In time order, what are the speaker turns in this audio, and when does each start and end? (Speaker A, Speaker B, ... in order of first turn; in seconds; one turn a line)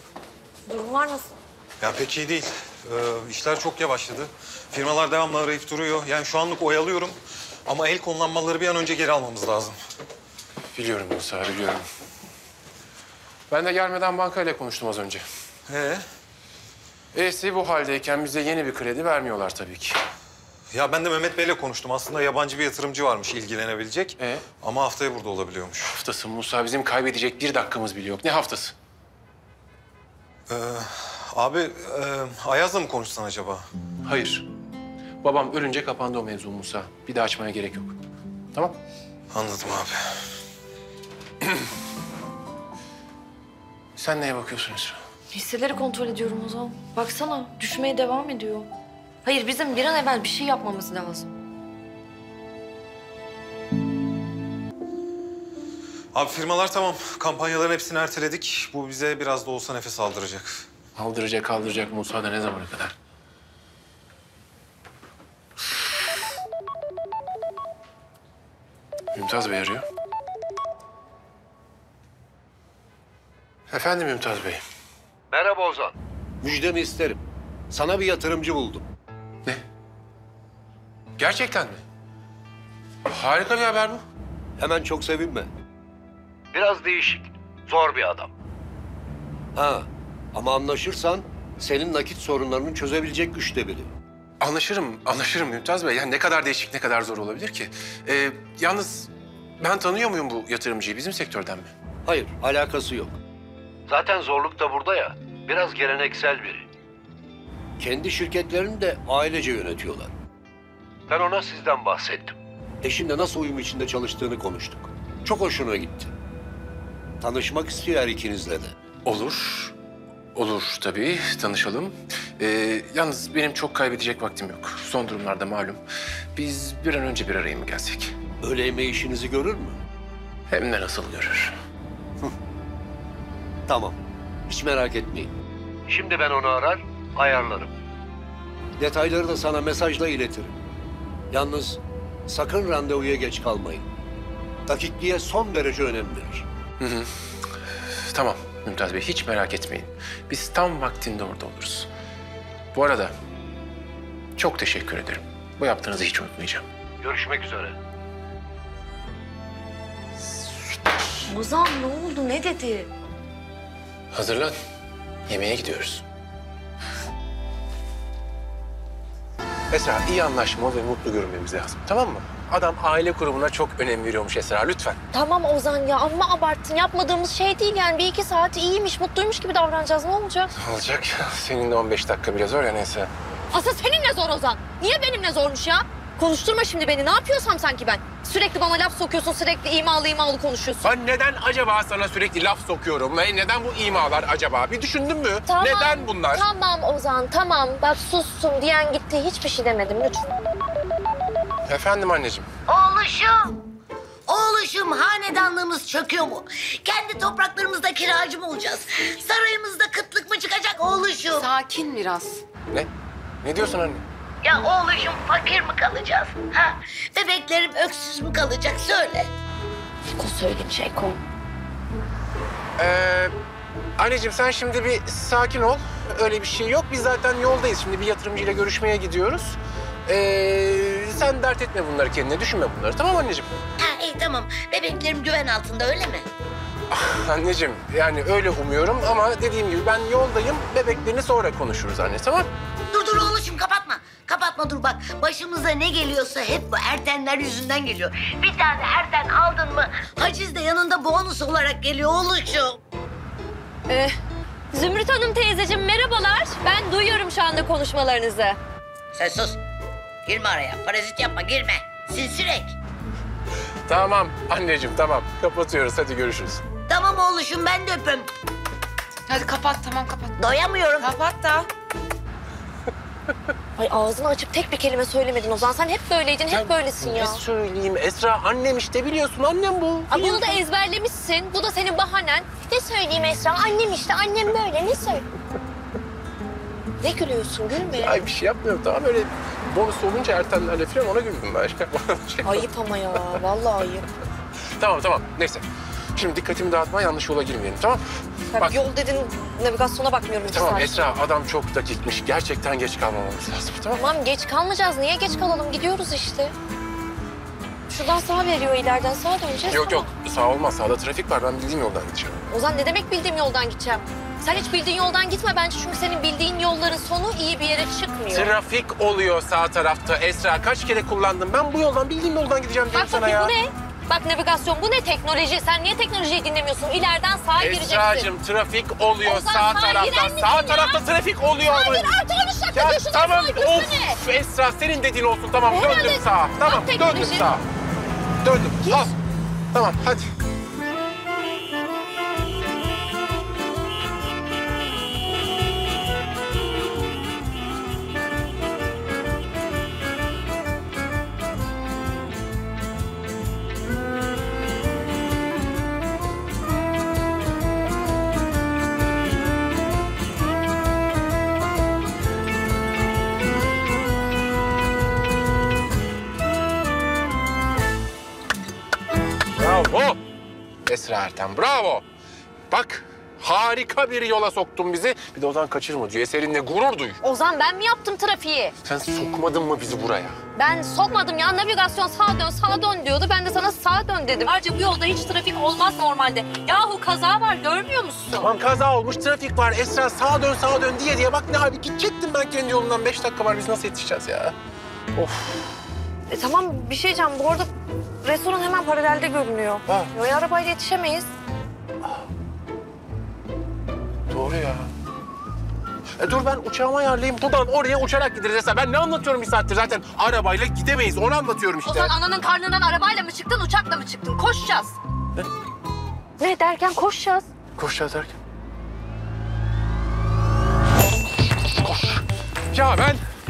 Speaker A: 0.7-1.3
Speaker B: 1.8-9.8
Speaker C: 10.7-11.8
Speaker C: 13.5-15.2
Speaker B: 15.7-16.0
Speaker C: 17.1-20.0
Speaker B: 20.7-26.0
Speaker C: 24.2-24.4
Speaker C: 25.9-28.7
Speaker B: 30.5-33.6
Speaker C: 34.0-34.5
Speaker C: 35.2-37.9
Speaker B: 39.3-40.0
Speaker C: 44.0-45.0
Speaker A: 45.3-48.7
Speaker A: 49.2-51.3
Speaker B: 56.1-60.6
Speaker C: 61.0-62.9
Speaker C: 69.1-69.8
Speaker C: 73.7-74.6
Speaker D: 75.3-78.8
Speaker C: 81.2-81.8
Speaker C: 83.1-84.0
Speaker D: 84.6-85.5
Speaker D: 86.5-88.3
Speaker D: 89.5-93.9
Speaker C: 94.4-101.7
Speaker D: 102.0-103.2
Speaker D: 103.9-106.7
Speaker D: 107.8-110.1
Speaker D: 111.1-116.1
Speaker D: 117.2-118.7
Speaker C: 119.0-119.7
Speaker C: 120.3-125.8
Speaker C: 126.3-128.1
Speaker D: 128.4-129.8
Speaker C: 130.5-131.5
Speaker D: 133.7-134.0
Speaker D: 134.5-135.3
Speaker D: 135.9-137.7
Speaker D: 138.8-140.6
Speaker D: 141.3-143.8
Speaker D: 144.7-146.4
Speaker C: 146.8-147.1
Speaker C: 148.0-151.9
Speaker C: 152.7-153.1
Speaker C: 154.4-156.6
Speaker D: 157.0-157.8
Speaker A: 161.3-162.9
Speaker C: 164.1-164.5
Speaker C: 165.3-166.0
Speaker C: 169.7-175.0
Speaker A: 175.1-180.5
Speaker C: 180.6-183.1
Speaker A: 183.5-190.8
Speaker C: 190.8-196.5
Speaker A: 195.5-200.4
Speaker C: 201.7-202.5
Speaker E: 202.7-203.5
Speaker E: 204.3-211.5
Speaker F: 211.3-212.4
Speaker C: 213.4-214.0
Speaker E: 214.4-219.3
Speaker A: 220.1-221.2
Speaker C: 222.8-223.3
Speaker C: 224.0-233.5
Speaker E: 233.8-236.2
Speaker C: 236.9-242.5
Speaker E: 242.9-252.8
Speaker A: 253.9-254.1
Speaker A: 254.7-258.6
Speaker E: 259.1-259.6
Speaker E: 260.2-262.7
Speaker C: 263.9-266.6
Speaker E: 266.9-268.3
Speaker F: 269.3-270.3
Speaker E: 270.4-271.2
Speaker F: 271.0-271.7
Speaker A: 273.8-277.4
Speaker C: 276.5-280.5
Speaker A: 280.1-285.2
Speaker A: 287.0-288.2
Speaker C: 287.9-292.6
Speaker A: 292.4-294.1
Speaker C: 294.8-298.0
Speaker A: 298.5-301.1
Speaker C: 300.4-304.0
Speaker A: 303.9-306.5
Speaker A: 307.9-310.1
Speaker C: 309.7-312.4
Speaker A: 312.5-318.5
Speaker C: 318.3-323.5
Speaker A: 322.9-328.3
Speaker C: 327.6-332.1
Speaker A: 329.2-331.0
Speaker A: 331.6-334.2
Speaker C: 332.7-337.6
Speaker A: 335.7-337.5
Speaker C: 338.4-339.2
Speaker C: 339.7-340.3
Speaker C: 369.6-370.2
Speaker C: 370.9-372.0
Speaker C: 372.7-377.2
Speaker A: 377.2-378.7
Speaker C: 378.8-380.4
Speaker A: 380.5-388.5
Speaker C: 388.3-394.5
Speaker C: 395.1-395.7
Speaker A: 396.3-397.7
Speaker A: 398.2-401.3
Speaker C: 404.3-404.9
Speaker C: 406.2-412.1
Speaker A: 411.8-415.0
Speaker A: 416.4-417.4
Speaker C: 417.8-418.3
Speaker C: 421.8-423.2